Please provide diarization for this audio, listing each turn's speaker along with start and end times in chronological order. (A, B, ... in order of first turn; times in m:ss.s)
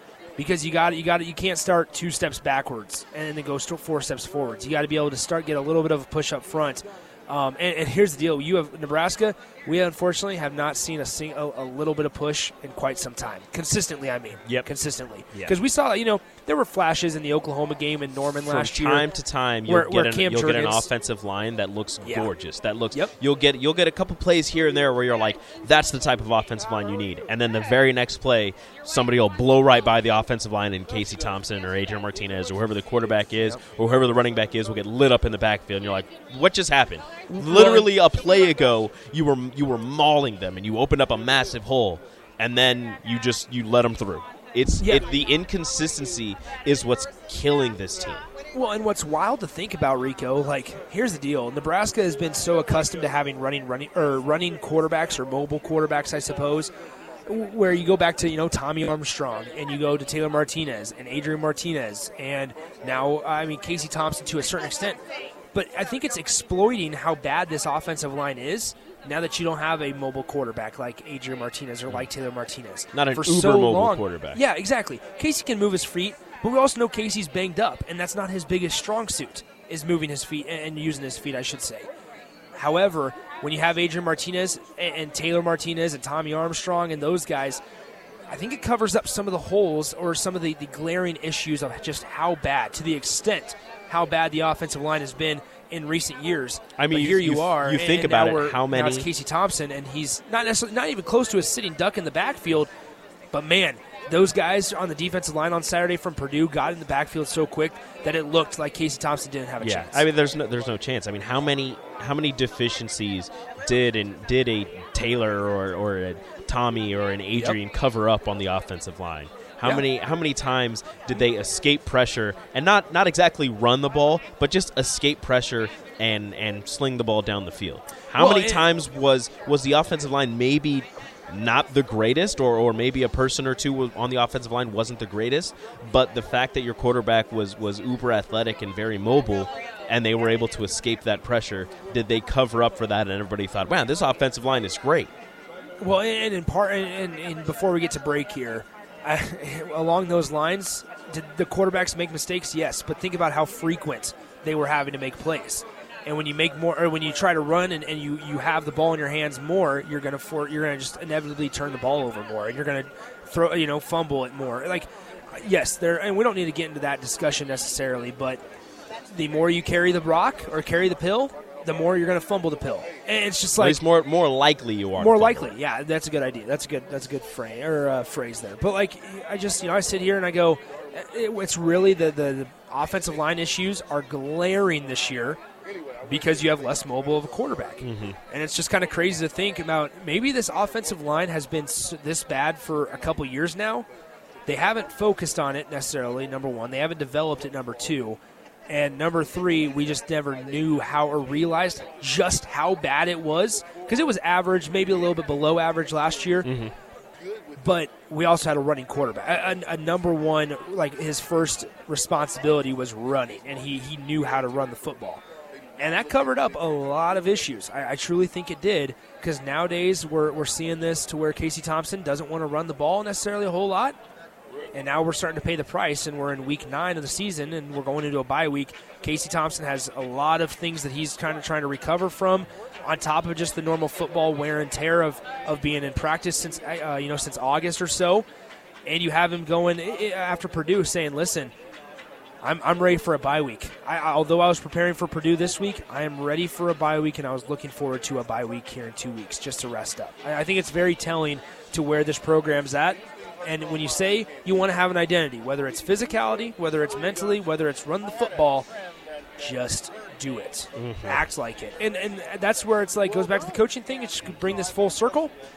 0:00.4-0:19.1 A
0:18.4-0:48.3 B
0:19.7-0:20.9 A
0:22.0-0:22.3 A
0:37.3-0:37.9 A
0:48.5-0:56.7 A
0:57.3-1:05.0 A
1:05.5-1:21.9 A
1:12.9-1:14.4 B
1:22.6-1:27.6 A
1:28.3-1:42.7 A
1:36.8-1:39.1 B
1:43.3-1:50.0 A
1:49.6-2:25.1 B
2:08.2-2:08.6 A
2:25.8-2:48.4 A
2:49.1-2:53.8 A
2:53.6-2:55.5 B
2:55.0-3:05.4 A
3:06.0-3:13.8 A
3:07.8-3:08.2 B
3:14.4-3:26.5 A
3:26.4-3:26.7 B
3:27.6-3:35.2 A
3:35.8-3:44.0 A
3:44.7-3:58.2 A
3:58.8-4:01.5 A
4:02.4-4:18.7 A
4:19.4-4:25.3 A
4:20.7-4:21.2 B